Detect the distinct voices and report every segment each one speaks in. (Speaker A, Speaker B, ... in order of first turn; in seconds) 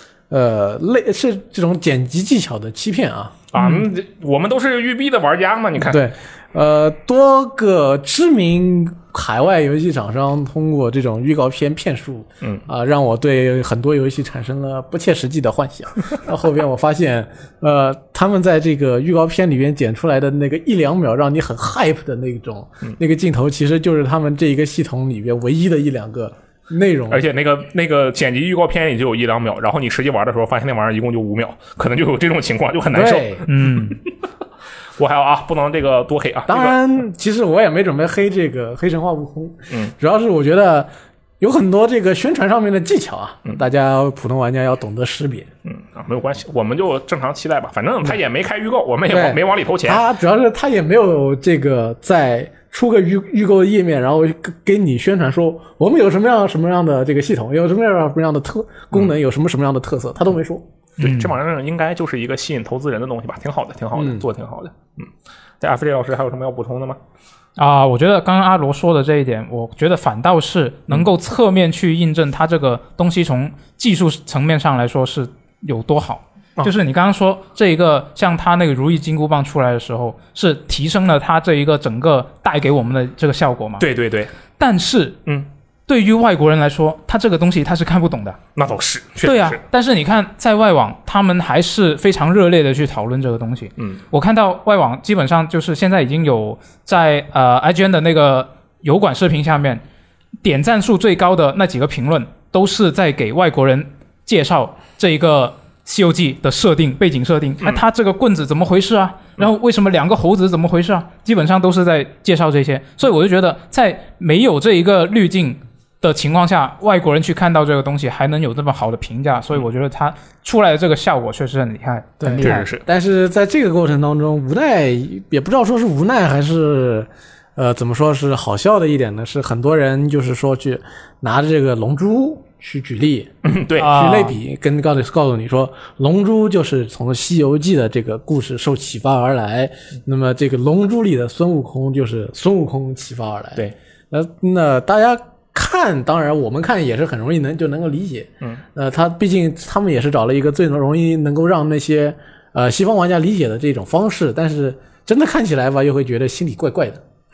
Speaker A: 0.3-3.4, 5.8-27.2, 32.9-33.5, 36.5-40.9, 41.4-45.5, 49.1-60.7, 64.0-64.2, 122.2-157.0
Speaker B: 3.5-6.0, 27.1-34.0, 35.0-36.8, 45.6-50.0, 61.0-65.1, 65.6-67.0, 83.8-84.3, 88.5-89.6, 122.4-122.8, 133.4-134.3
Speaker C: 33.5-34.0, 61.0-61.3, 67.6-83.8, 84.6-85.2, 85.9-88.4, 89.2-99.8, 100.4-122.7, 133.8-134.3